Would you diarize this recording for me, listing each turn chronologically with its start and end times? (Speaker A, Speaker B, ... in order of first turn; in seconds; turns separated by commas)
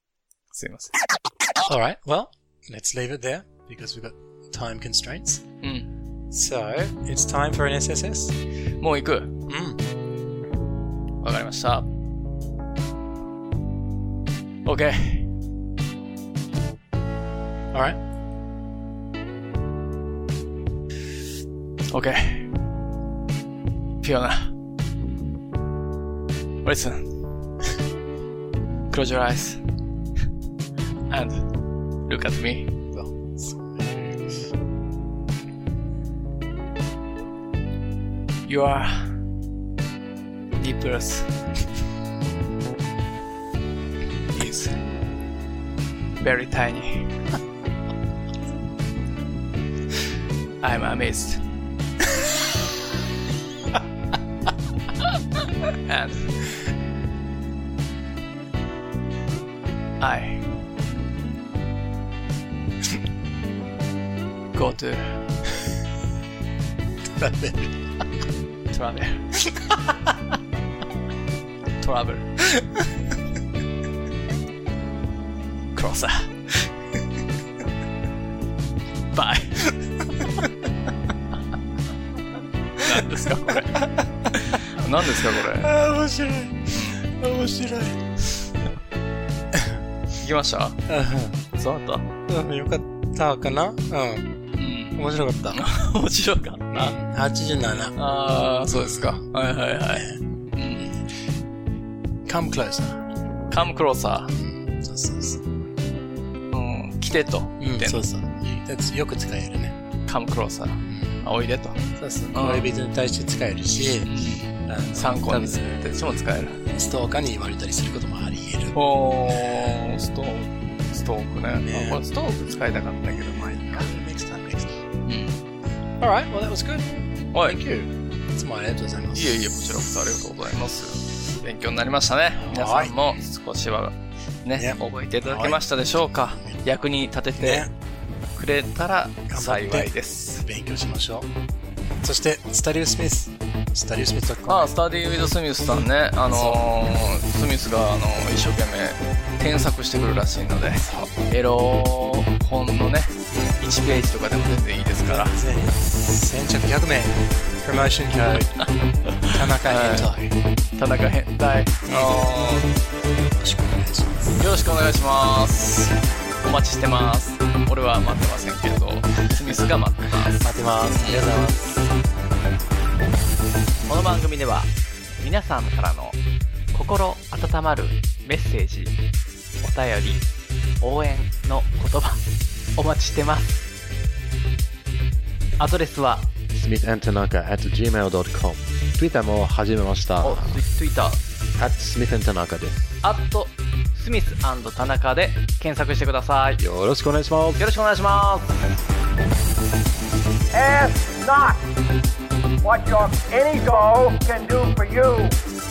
Speaker A: 0.5-0.9, Speaker B: 1.6-5.4, Speaker A: 5.6-5.9, Speaker B: 6.3-8.3, Speaker A: 8.8-9.3, Speaker B: 9.5-9.8, Speaker A: 11.2-11.9, Speaker A: 14.6-15.3, Speaker B: 17.7-18.0, Speaker A: 21.9-22.5, Speaker A: 24.0-24.5, Speaker A: 26.6-27.2, Speaker A: 28.9-29.6, Speaker A: 31.1-31.5, Speaker A: 32.0-32.7, Speaker B: 32.9-34.4, Speaker A: 38.4-39.2, Speaker A: 40.6-41.3, Speaker A: 44.3-44.8, Speaker A: 46.2-47.1, Speaker A: 50.6-51.4, Speaker A: 55.6-56.3, Speaker A: 60.0-60.4, Speaker A: 64.5-65.2, Speaker B: 67.0-68.0, Speaker A: 68.7-69.3, Speaker B: 69.4-70.1, Speaker A: 71.8-72.4, Speaker B: 72.5-72.9, Speaker A: 75.7-76.3, Speaker A: 79.1-79.7, Speaker B: 80.2-80.5, Speaker A: 82.8-85.7, Speaker B: 82.8-84.3, Speaker B: 85.2-88.0, Speaker A: 86.7-87.0, Speaker B: 89.5-89.8, Speaker A: 90.2-90.8, Speaker B: 90.9-91.4, Speaker A: 91.5-92.1, Speaker B: 92.3-94.3, Speaker A: 94.6-95.0, Speaker B: 94.9-95.6, Speaker A: 95.5-96.9, Speaker B: 96.7-98.0, Speaker A: 98.0-101.0, Speaker B: 98.7-99.2, Speaker B: 99.9-100.2, Speaker B: 102.2-103.7, Speaker A: 103.5-104.3, Speaker B: 104.3-105.4, Speaker A: 106.5-108.0, Speaker B: 107.6-109.8, Speaker A: 110.1-111.8, Speaker B: 110.8-111.2, Speaker B: 111.9-119.9, Speaker A: 112.3-112.7, Speaker A: 114.0-116.6, Speaker A: 118.7-123.9, Speaker B: 121.5-122.0, Speaker B: 123.4-124.8, Speaker A: 125.0-125.4, Speaker B: 126.0-129.4, Speaker A: 129.1-137.7, Speaker B: 132.4-133.0, Speaker B: 134.5-135.7, Speaker B: 137.4-137.7, Speaker A: 138.3-140.4, Speaker B: 139.3-141.3, Speaker B: 142.0-146.6, Speaker A: 144.5-155.3, Speaker B: 150.8-151.1, Speaker B: 153.3-153.6, Speaker B: 155.1-158.6, Speaker A: 159.1-160.1, Speaker B: 159.3-160.3, Speaker A: 160.8-162.7, Speaker B: 161.9-164.4, Speaker A: 164.3-165.9, Speaker A: 166.4-171.2, Speaker B: 170.4-171.9, Speaker A: 173.9-176.2, Speaker A: 176.7-178.9, Speaker A: 179.6-180.2, Speaker A: 180.8-182.2, Speaker A: 182.8-183.7, Speaker A: 185.6-186.3, Speaker C: 186.5-190.6, Speaker A: 190.2-191.2, Speaker C: 191.6-192.8, Speaker A: 193.0-196.6, Speaker C: 196.6-197.6, Speaker A: 197.6-198.6, Speaker D: 200.5-201.6, Speaker D: 202.6-205.4